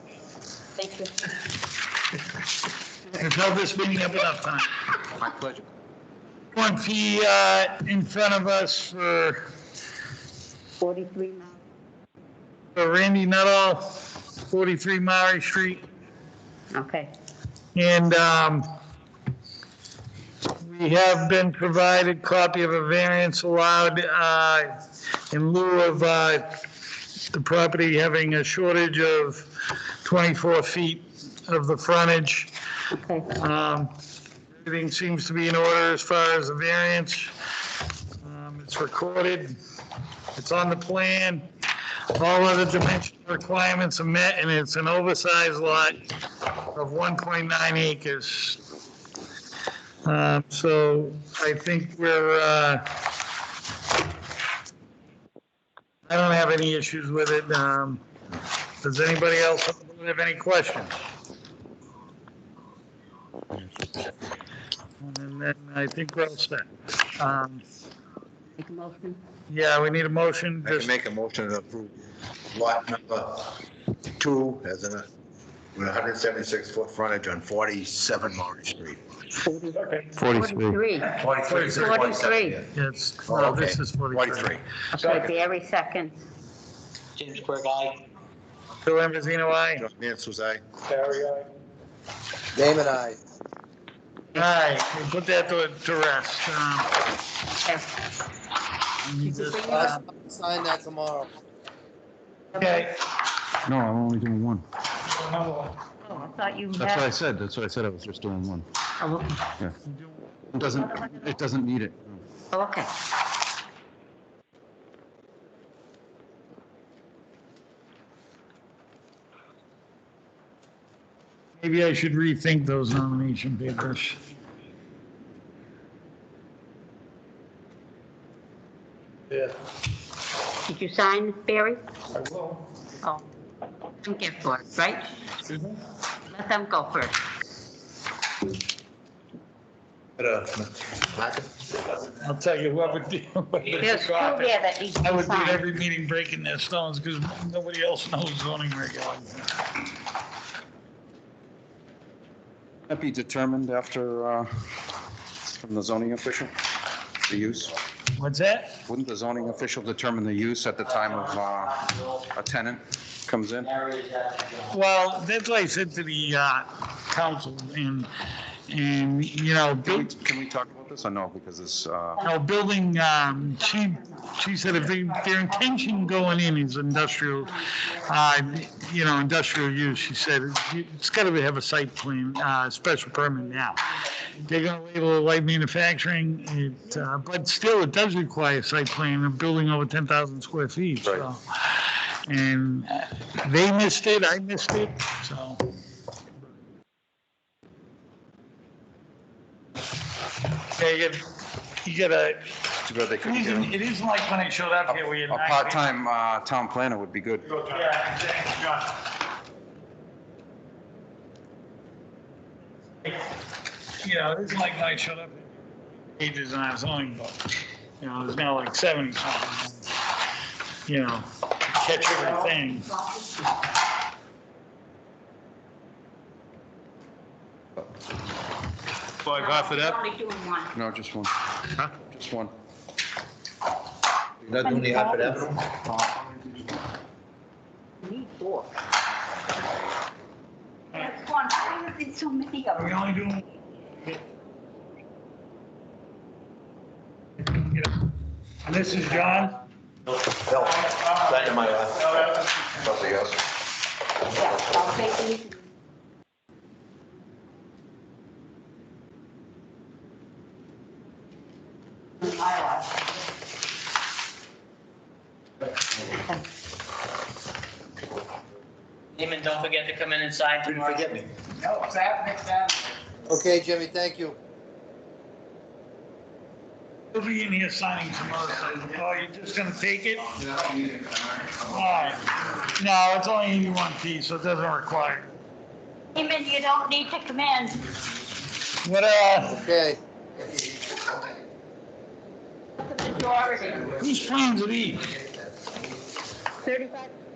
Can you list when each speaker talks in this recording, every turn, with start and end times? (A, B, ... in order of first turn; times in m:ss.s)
0:00.8-0:01.1 A
0:03.2-0:04.7 B
0:05.2-0:05.6 C
0:06.5-0:09.4 B
0:10.8-0:11.6 A
0:12.8-0:15.8 B
0:16.7-0:17.1 A
0:17.8-0:18.7 B
0:20.6-0:24.8 B
0:25.3-0:26.6 B
0:27.3-0:32.5 B
0:33.0-0:33.3 A
0:33.3-0:33.9 B
0:34.6-0:37.3 B
0:38.2-0:39.6 B
0:40.3-0:41.5 B
0:42.2-0:46.0 B
0:46.7-0:48.6 B
0:50.0-0:53.0 B
0:56.1-0:58.0 B
0:58.8-1:00.9 B
1:05.0-1:07.6 B
1:08.6-1:09.2 A
1:09.5-1:10.9 B
1:10.6-1:12.0 D
1:12.5-1:13.6 D
1:14.2-1:15.1 D
1:15.8-1:19.0 D
1:19.4-1:22.6 A
1:19.9-1:20.6 B
1:20.2-1:20.8 C
1:21.2-1:22.7 D
1:21.2-1:22.1 B
1:22.7-1:24.6 B
1:23.3-1:25.2 D
1:25.0-1:26.2 A
1:27.2-1:28.0 E
1:28.8-1:29.9 B
1:29.8-1:30.6 D
1:32.5-1:33.2 F
1:34.3-1:36.9 B
1:39.0-1:40.0 B
1:39.2-1:39.9 A
1:39.7-1:41.3 F
1:42.6-1:42.9 B
1:43.7-1:44.6 C
1:45.2-1:45.7 B
1:46.0-1:47.1 A
1:46.8-1:48.7 C
1:49.0-1:49.4 A
1:49.8-1:50.4 B
1:50.5-1:52.2 C
1:52.5-1:52.9 A
2:01.6-2:04.2 B
2:10.7-2:11.8 A
2:14.0-2:15.1 A
2:16.3-2:17.2 A
2:20.2-2:21.5 D
2:22.2-2:29.6 B
2:23.8-2:25.6 A
2:32.9-2:34.5 C
2:35.5-2:36.5 C
2:37.3-2:37.8 C
2:38.2-2:38.8 B
2:38.9-2:43.7 C
2:40.8-2:42.3 E
2:43.6-2:44.8 E
2:44.7-2:48.1 B
2:48.7-2:50.1 B
2:49.8-2:52.2 C
2:52.2-3:03.8 B
2:53.6-2:54.0 A
3:04.4-3:15.6 B
3:20.7-3:21.2 B
3:21.8-3:22.4 B
3:22.8-3:23.7 C
3:23.2-3:25.9 B
3:25.3-3:27.6 C
3:27.7-3:28.8 B
3:34.0-3:37.4 B
3:38.0-3:39.9 B
3:40.9-3:42.9 B
3:49.3-3:50.7 A
3:49.4-3:49.7 D
3:50.7-3:51.3 C
3:51.9-3:52.5 C
3:54.4-3:55.8 D
3:54.6-3:55.4 A
3:58.0-3:58.7 A
4:00.9-4:03.0 A
4:02.8-4:03.4 B
4:07.6-4:07.9 B
4:08.6-4:09.6 B
4:10.4-4:12.5 D
4:12.9-4:13.1 C
4:14.3-4:15.6 A
4:22.2-4:22.9 A
4:29.2-4:32.7 E
4:30.7-4:31.2 D
4:33.3-4:34.4 F
4:37.1-4:40.5 B
4:41.7-4:45.3 B
4:46.2-4:47.8 A
4:48.8-4:49.7 B
4:49.5-4:50.0 F
4:52.8-4:54.0 A
4:54.0-4:55.1 B
4:56.6-4:57.2 A